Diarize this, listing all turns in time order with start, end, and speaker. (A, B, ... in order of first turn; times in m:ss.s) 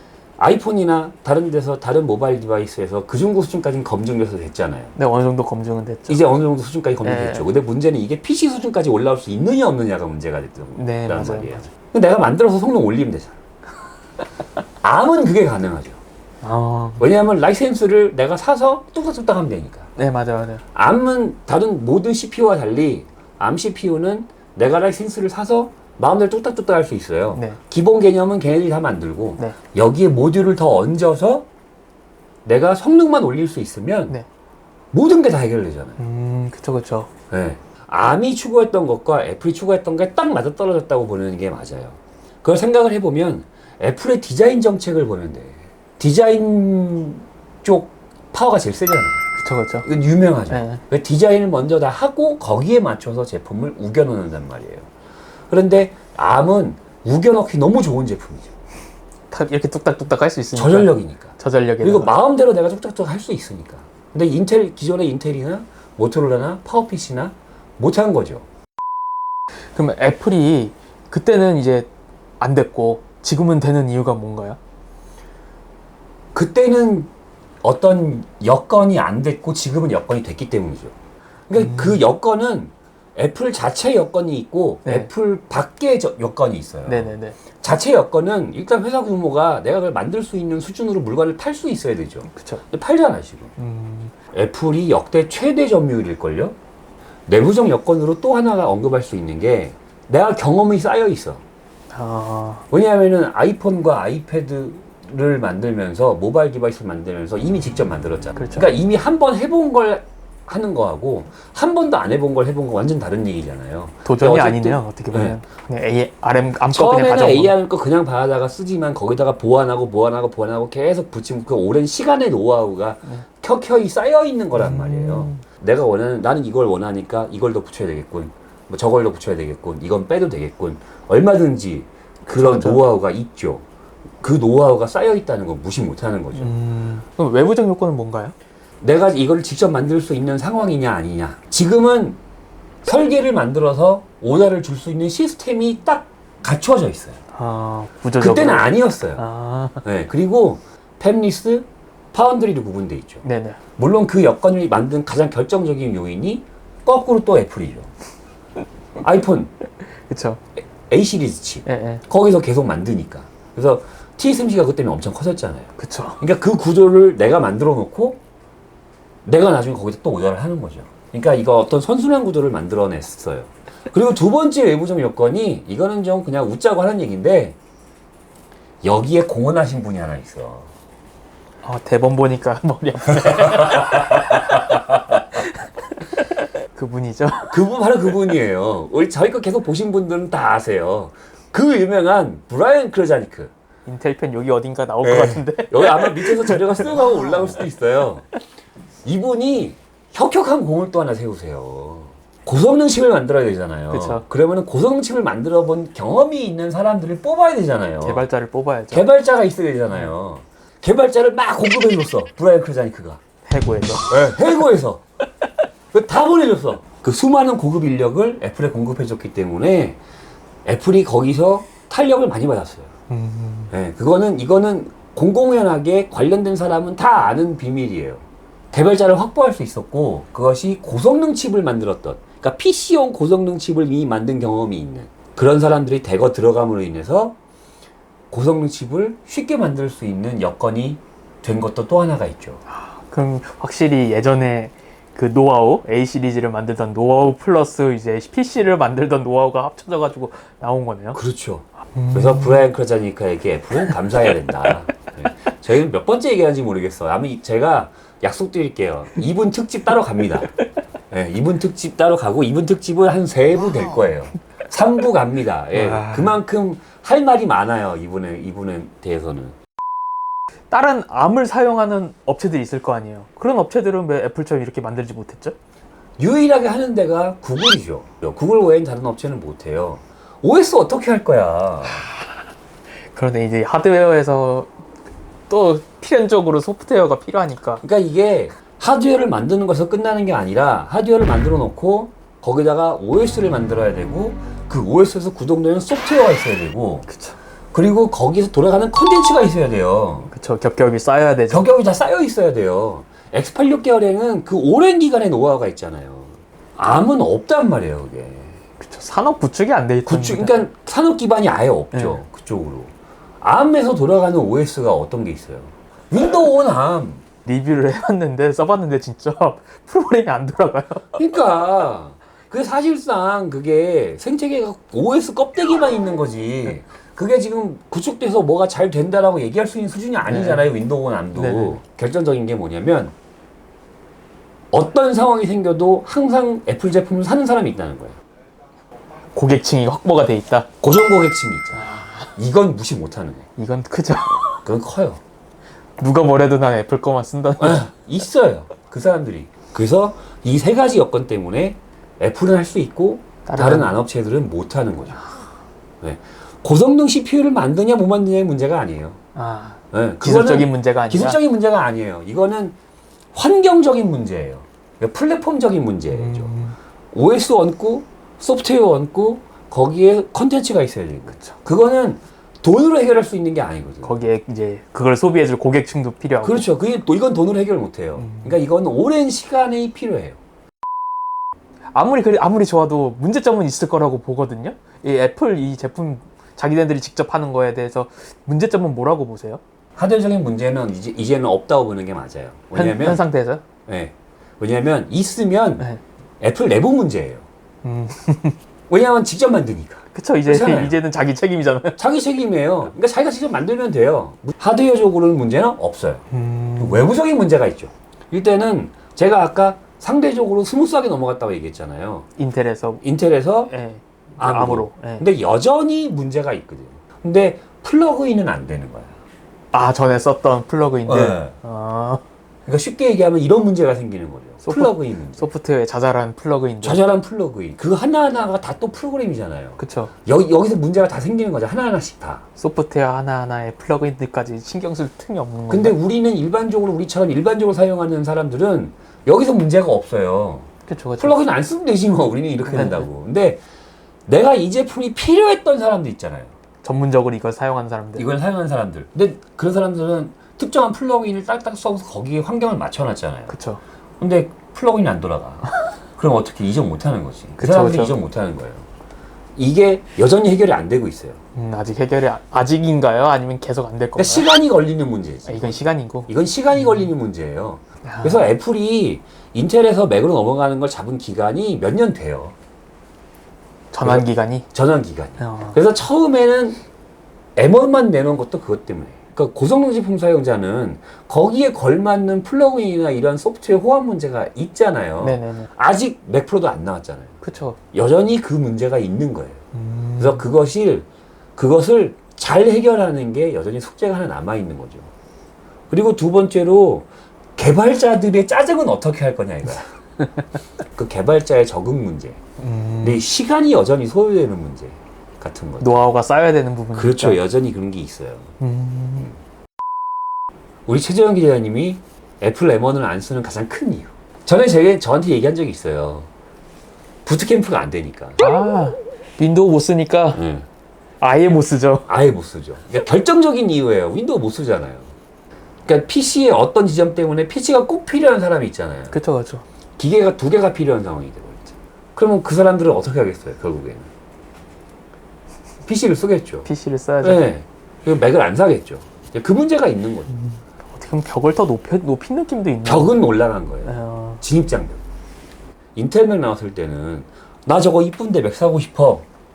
0:00.4-0:05.0 A
0:05.0-0:06.2 B
0:06.1-0:13.4 A
0:07.0-0:07.5 B
0:10.8-0:11.6 B
0:14.8-0:16.0 A
0:16.4-0:17.1 B
0:17.0-0:19.9 A
0:20.0-0:20.6 B
0:20.8-0:31.5 A
0:27.3-0:27.6 B
0:32.5-0:34.2 A
0:34.9-0:36.0 A
0:36.0-0:37.1 B
0:37.3-0:49.2 A
0:49.4-0:49.9 B
0:49.8-0:54.9 A
0:50.5-0:50.8 B
0:55.5-0:58.5 A
0:59.3-1:02.1 B
1:00.5-1:08.4 A
1:09.7-1:11.9 B
1:12.4-1:14.6 B
1:16.4-1:17.1 A
1:17.6-1:20.9 A
1:21.5-1:33.6 A
1:21.6-1:22.0 B
1:24.8-1:25.1 B
1:26.9-1:27.4 B
1:32.3-1:32.6 B
1:33.6-1:34.1 B
1:34.3-1:36.6 A
1:37.3-1:41.4 A
1:41.9-1:42.7 B
1:42.7-1:55.4 A
1:48.4-1:48.7 B
1:54.0-1:57.6 B
1:56.7-2:13.6 A
2:04.6-2:05.4 B
2:12.3-2:12.8 B
2:14.2-2:16.6 A
2:16.4-2:18.3 B
2:18.8-2:22.2 A
2:22.8-2:27.2 A
2:27.3-2:29.8 B
2:28.2-2:29.2 A
2:29.8-2:33.2 A
2:33.2-2:33.6 B
2:33.8-2:37.9 A
2:39.0-2:39.5 A
2:40.1-2:40.4 B
2:40.9-2:48.2 A
2:41.7-2:42.0 B
2:45.8-2:46.2 B
2:49.3-2:57.6 A
2:58.8-3:00.7 A
3:01.6-3:07.6 B
3:03.6-3:05.0 A
3:07.5-3:13.5 A
3:13.9-3:17.6 B
3:15.0-3:18.2 A
3:19.0-3:28.2 A
3:23.9-3:24.2 B
3:28.0-3:29.1 B
3:28.9-3:33.2 A
3:33.5-3:34.2 B
3:34.1-3:35.0 A
3:35.9-3:40.0 A
3:40.7-3:42.9 A
3:43.1-3:43.7 B
3:43.7-3:57.4 A
3:58.3-4:02.6 A
4:02.7-4:11.2 B
4:11.2-4:20.5 A
4:12.0-4:12.7 B
4:21.1-4:29.6 A
4:25.7-4:26.4 B
4:30.7-4:35.6 B
4:36.2-4:42.1 A
4:43.1-4:44.7 B
4:45.5-4:47.8 B
4:47.8-4:57.1 A
4:57.1-4:57.4 B
4:57.7-5:00.3 A
5:00.3-5:01.7 B
5:01.5-5:08.6 A
5:08.8-5:10.6 B
5:10.1-5:17.2 A
5:11.9-5:12.2 B
5:17.5-5:21.2 B
5:21.2-5:33.1 A
5:30.2-5:30.7 B
5:31.3-5:31.8 B
5:34.7-5:38.2 A
5:39.3-5:40.7 B
5:40.8-5:43.4 A
5:41.8-5:42.3 B
5:43.6-5:44.6 B
5:44.6-5:45.2 A
5:46.0-5:47.9 B
5:47.6-5:55.3 A
5:53.5-5:53.9 B
5:56.0-5:59.2 A
5:59.4-6:01.4 B
5:59.9-6:02.8 A
6:03.3-6:06.5 A
6:06.1-6:06.8 B
6:07.1-6:14.2 A
6:14.0-6:16.7 B
6:16.4-6:20.4 A
6:18.2-6:18.6 B
6:21.9-6:29.6 B
6:30.0-6:33.2 A
6:32.8-6:33.6 B
6:33.9-6:35.9 A
6:36.4-6:37.4 A
6:37.8-6:38.6 B
6:38.9-6:41.0 A
6:40.1-6:42.0 B
6:42.0-6:46.2 A
6:46.3-6:47.1 B
6:46.8-6:52.3 A
6:52.4-6:53.0 B
6:53.0-6:53.7 A
6:53.7-6:55.3 B
6:54.4-6:59.2 A
6:59.7-7:02.2 B
7:01.1-7:01.6 A
7:02.7-7:05.5 A
7:04.6-7:07.0 B
7:06.8-7:12.4 A
7:09.8-7:10.1 B
7:12.6-7:16.0 B
7:15.7-7:23.6 A
7:20.9-7:21.4 B
7:22.6-7:23.1 B
7:24.3-7:26.5 A
7:26.8-7:28.3 B
7:28.2-7:33.6 A
7:33.5-7:33.8 B
7:34.2-7:38.9 A
7:37.6-7:38.2 B
7:39.6-7:41.4 A
7:41.6-7:44.5 B
7:44.2-7:52.6 A
7:45.5-7:46.3 B
7:48.0-7:48.5 B
7:53.9-7:54.7 B
7:54.0-7:56.8 A
7:55.4-7:55.8 B
7:57.6-8:07.4 A
8:05.2-8:05.7 B
8:07.4-8:07.8 B
8:07.9-8:09.6 A
8:09.7-8:10.4 B
8:10.2-8:15.1 A
8:15.9-8:20.0 A
8:20.9-8:22.4 A
8:22.6-8:23.2 B
8:23.0-8:25.9 A
8:25.8-8:27.4 B
8:27.0-8:28.6 A
8:28.6-8:29.3 B
8:30.9-8:36.3 A
8:37.3-8:38.4 A
8:38.4-8:40.4 B
8:40.4-8:40.7 A
8:41.2-8:42.1 B
8:42.1-8:45.1 A
8:45.9-8:49.2 A
8:49.1-8:49.6 B
8:50.0-8:54.1 A
8:55.9-8:56.7 A
8:56.6-8:57.4 B
8:57.2-9:00.3 A
9:00.3-9:03.3 B
9:02.8-9:05.0 A
9:03.8-9:04.4 B
9:06.0-9:09.2 A